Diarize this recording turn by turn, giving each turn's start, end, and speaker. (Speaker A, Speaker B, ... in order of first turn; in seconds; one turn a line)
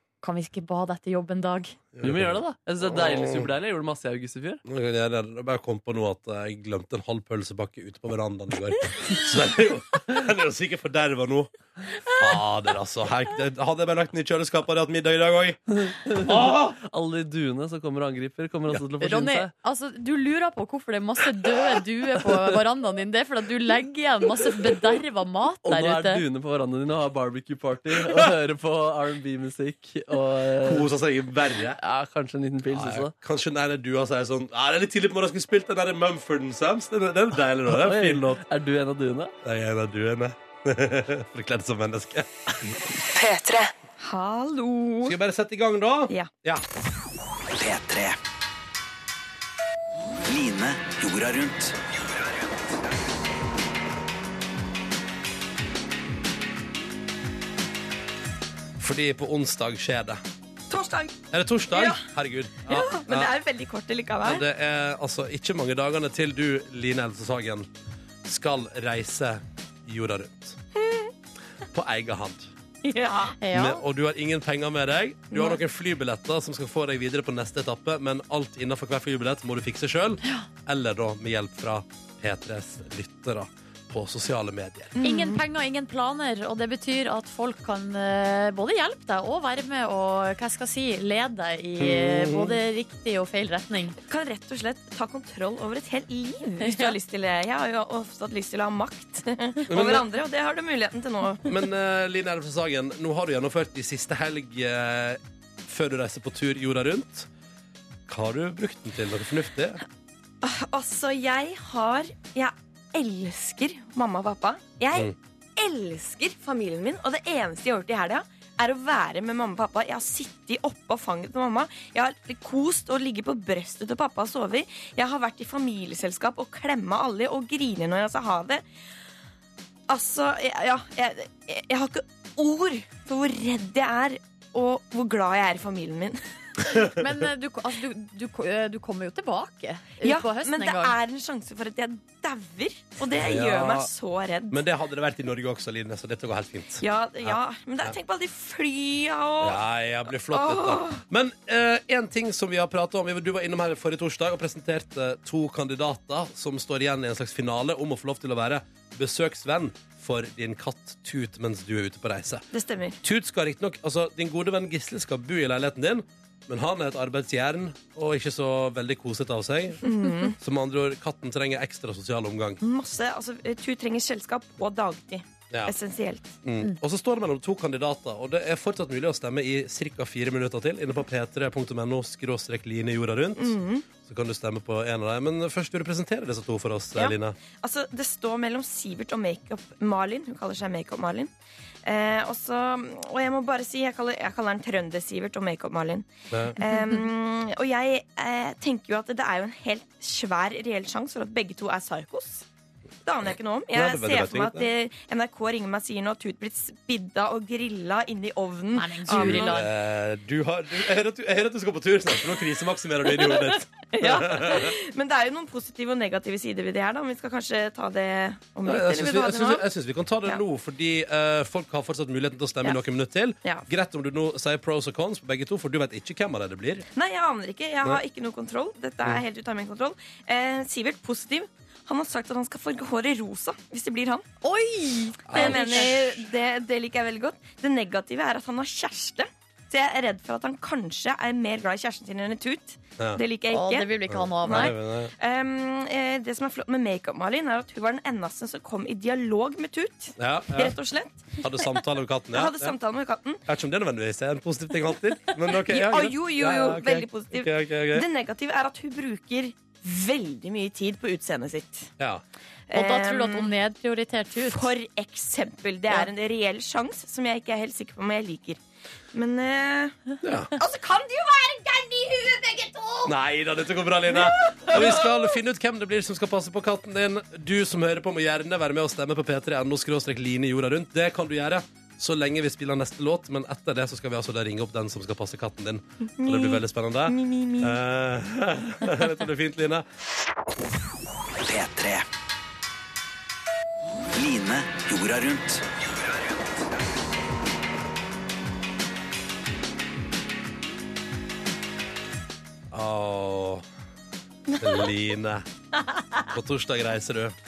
Speaker A: 0.2-1.8
Speaker B: 1.9-3.5
Speaker C: 2.0-4.6
Speaker B: 4.7-11.5
Speaker B: 12.1-16.8
Speaker C: 15.8-19.5
Speaker A: 19.0-26.2
Speaker C: 25.6-30.9
Speaker B: 30.6-31.8
Speaker C: 31.8-33.1
Speaker B: 32.7-38.4
Speaker C: 37.7-39.3
Speaker B: 39.4-42.5
Speaker D: 43.2-43.7
Speaker E: 44.0-45.2
Speaker B: 45.0-46.6
Speaker D: 47.6-48.2
Speaker D: 50.3-51.8
Speaker B: 58.8-60.2
Speaker E: 60.7-61.2
Speaker B: 61.3-63.3
Speaker E: 61.7-62.1
Speaker E: 62.6-64.5
Speaker B: 64.2-67.7
Speaker B: 68.2-70.6
Speaker E: 70.8-71.1
Speaker B: 71.7-72.5
Speaker E: 72.9-73.4
Speaker A: 73.4-73.8
Speaker B: 73.5-84.9
Speaker E: 75.3-75.6
Speaker E: 85.0-85.4
Speaker A: 85.0-94.0
Speaker B: 91.8-92.6
Speaker E: 94.1-101.6
Speaker A: 96.6-97.0
Speaker B: 99.7-100.1
Speaker B: 101.5-107.3
Speaker B: 108.1-109.8
Speaker E: 110.4-128.6
Speaker E: 129.9-136.2
Speaker A: 136.8-141.0
Speaker E: 140.0-144.6
Speaker B: 143.1-143.9
Speaker B: 144.5-148.0
Speaker E: 146.8-149.6
Speaker B: 149.4-162.4
Speaker E: 150.3-151.0
Speaker E: 162.5-163.0
Speaker B: 163.0-172.6
Speaker E: 169.8-170.4
Speaker E: 172.6-176.3
Speaker B: 175.5-175.8
Speaker B: 176.4-187.4
Speaker E: 183.4-183.9
Speaker E: 187.0-191.3
Speaker E: 191.8-202.5
Speaker B: 196.3-196.6
Speaker E: 203.1-209.6
Speaker B: 203.7-204.7
Speaker A: 208.8-209.7
Speaker B: 209.1-214.8
Speaker E: 213.1-219.7
Speaker B: 218.7-226.8
Speaker E: 226.9-234.2
Speaker A: 234.4-236.2
Speaker B: 235.3-236.1
Speaker E: 235.3-253.4
Speaker A: 243.5-244.8
Speaker B: 244.1-245.1
Speaker B: 250.2-250.8
Speaker B: 251.4-252.8
Speaker B: 253.5-258.1
Speaker E: 255.5-261.9
Speaker B: 262.0-262.2
Speaker E: 262.7-263.5
Speaker A: 262.7-264.7
Speaker E: 264.4-268.6
Speaker E: 269.1-270.0
Speaker B: 270.2-270.5
Speaker E: 270.6-273.1
Speaker B: 273.1-289.9
Speaker E: 274.1-275.3
Speaker E: 286.2-287.8
Speaker D: 291.4-292.1
Speaker D: 294.1-295.6
Speaker B: 302.7-303.7
Speaker E: 304.5-304.9
Speaker B: 304.6-305.5
Speaker B: 306.3-307.4